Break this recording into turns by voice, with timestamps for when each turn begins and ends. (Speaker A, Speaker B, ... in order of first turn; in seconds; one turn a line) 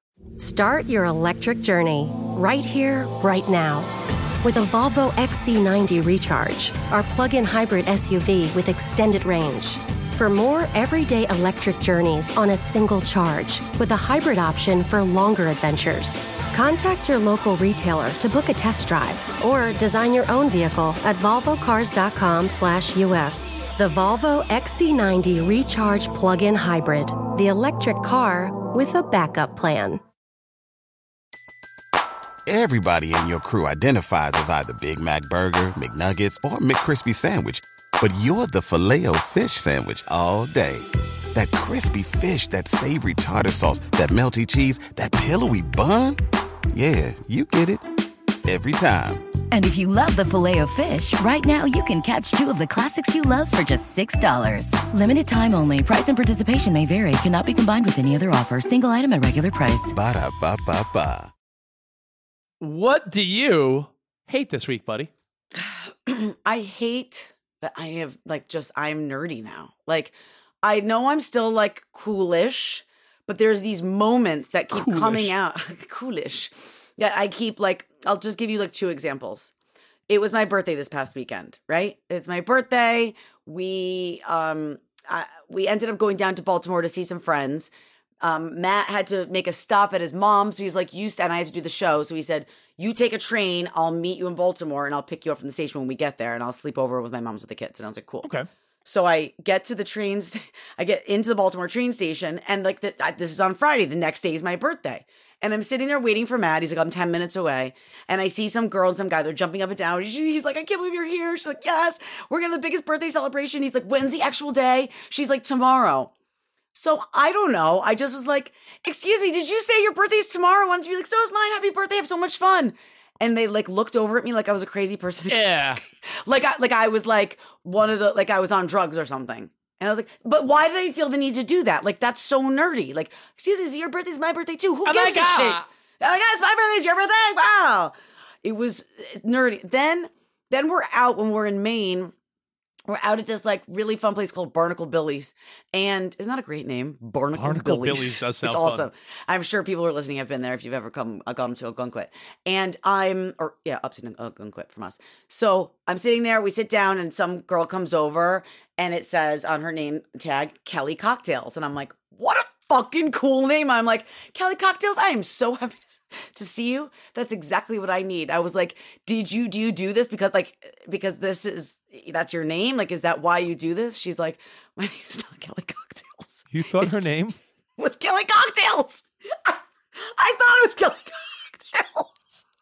Speaker A: 0.4-3.9
Speaker A: 4.4-30.0
Speaker B: 32.5-46.2
Speaker B: 46.7-47.8
Speaker B: 48.4-49.3
Speaker C: 49.5-59.9
Speaker B: 59.9-61.3
Speaker D: 62.6-65.1
Speaker E: 65.5-79.5
Speaker D: 74.7-75.3
Speaker E: 80.1-87.7
Speaker E: 88.2-98.3
Speaker E: 98.8-116.1
Speaker E: 116.7-142.1
Speaker D: 125.3-125.8
Speaker D: 134.8-135.6
Speaker E: 142.9-176.9
Speaker D: 147.3-148.9
Speaker D: 176.5-177.3
Speaker E: 177.8-182.2